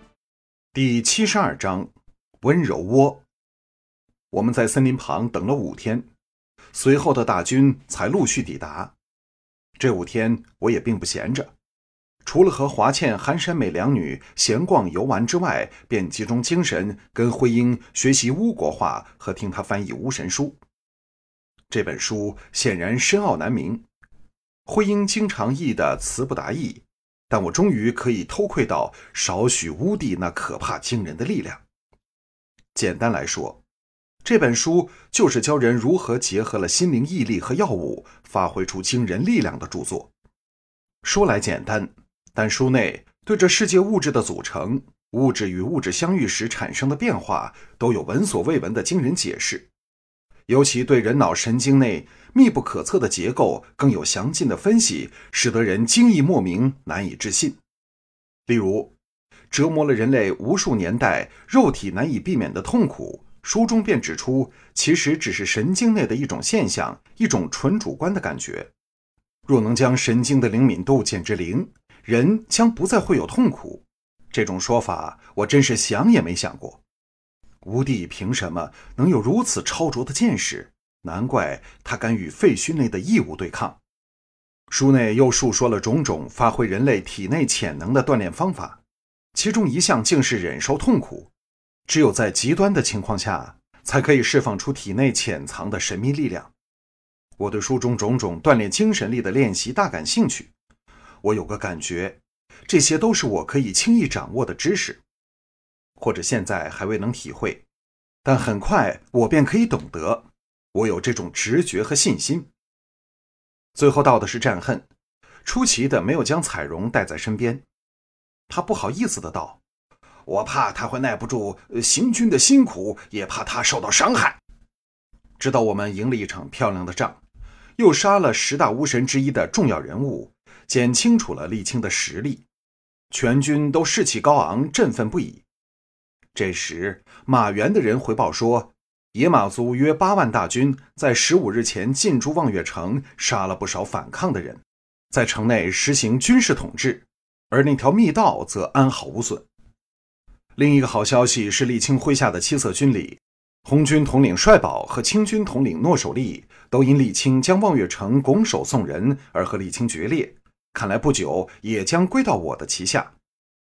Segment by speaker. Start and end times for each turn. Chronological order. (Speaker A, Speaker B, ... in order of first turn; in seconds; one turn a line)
Speaker A: 0.7-1.9
Speaker A: 2.4-3.2
Speaker A: 4.3-6.1
Speaker A: 6.7-8.9
Speaker A: 9.8-11.5
Speaker A: 12.2-20.6
Speaker A: 21.7-23.8
Speaker A: 24.6-31.6
Speaker A: 32.7-33.6
Speaker A: 34.2-40.1
Speaker A: 41.0-49.7
Speaker A: 50.5-57.6
Speaker A: 58.5-58.9
Speaker A: 59.5-68.7
Speaker A: 69.5-76.8
Speaker A: 77.6-83.8
Speaker A: 84.7-88.8
Speaker A: 89.3-91.3
Speaker A: 91.9-96.5
Speaker A: 97.4-100.5
Speaker A: 101.2-105.0
Speaker A: 106.0-107.7
Speaker A: 108.2-112.5
Speaker A: 113.7-114.9
Speaker A: 115.4-117.6
Speaker A: 118.5-119.6
Speaker A: 120.2-124.4
Speaker A: 125.4-127.2
Speaker A: 127.8-132.4
Speaker A: 133.1-135.4
Speaker A: 136.3-149.4
Speaker A: 150.6-163.1